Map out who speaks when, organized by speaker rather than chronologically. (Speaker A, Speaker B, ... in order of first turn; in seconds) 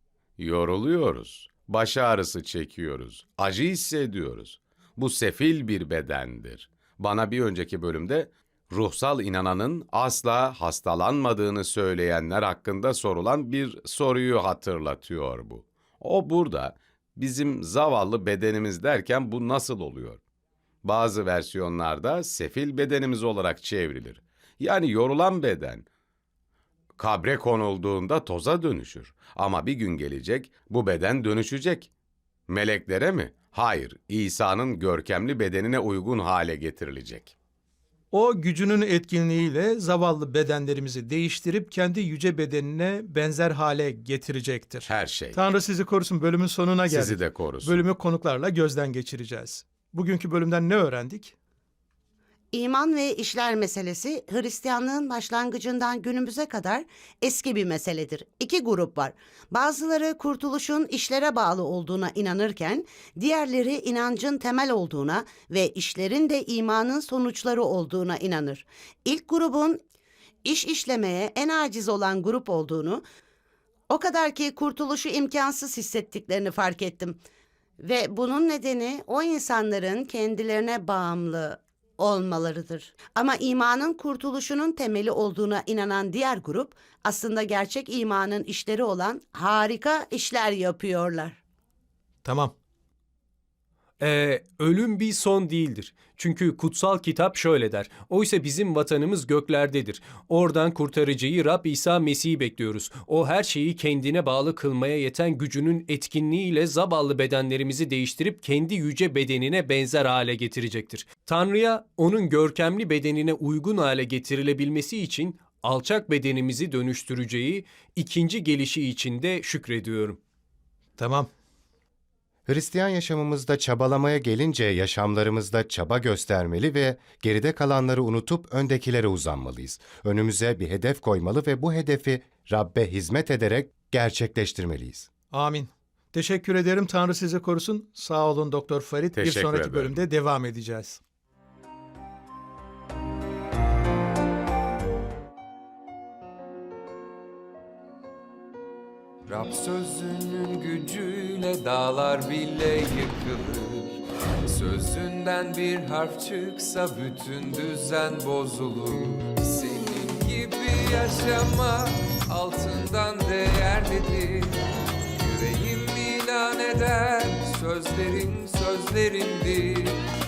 Speaker A: 0.4-20.2, 20.8-25.9, 27.0-31.9, 32.5-37.3, 44.9-45.4, 46.9-47.8, 139.1-140.0
Speaker B: 38.1-51.4, 92.2-92.5, 121.0-121.3, 135.3-141.0
Speaker C: 52.5-69.8, 70.5-73.0, 73.9-77.2, 77.8-91.4
Speaker D: 94.0-120.2
Speaker E: 122.5-135.1
Speaker F: 149.3-170.0